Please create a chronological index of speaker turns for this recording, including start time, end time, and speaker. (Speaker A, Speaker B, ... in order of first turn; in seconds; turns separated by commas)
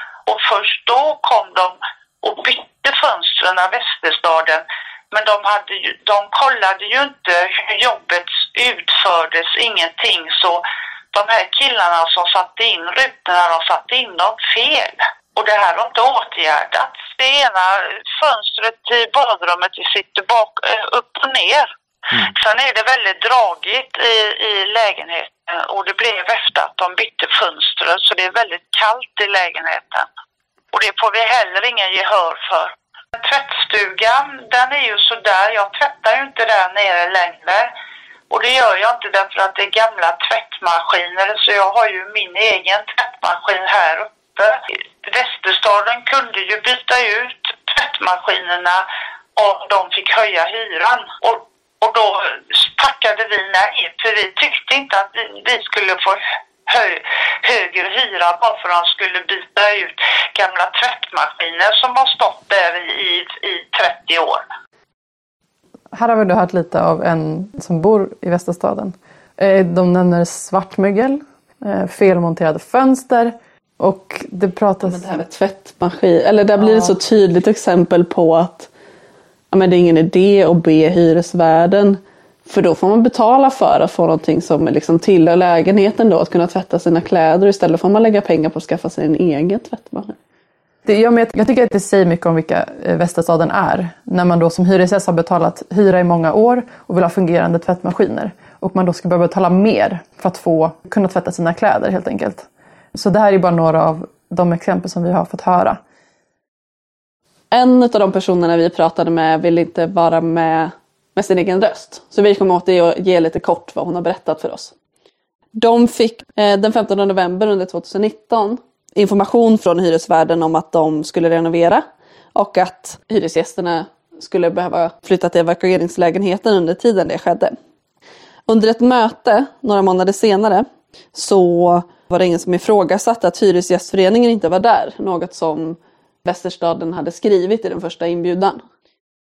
Speaker A: 0.2-30.1, Speaker A: 30.7-37.7, Speaker A: 38.3-48.8, Speaker A: 49.4-64.4, Speaker B: 65.9-75.2, Speaker C: 74.8-78.7, Speaker B: 76.6-76.9, Speaker C: 79.5-90.2, Speaker B: 90.8-105.8, Speaker C: 107.5-114.7, Speaker C: 115.5-127.6, Speaker C: 128.5-138.6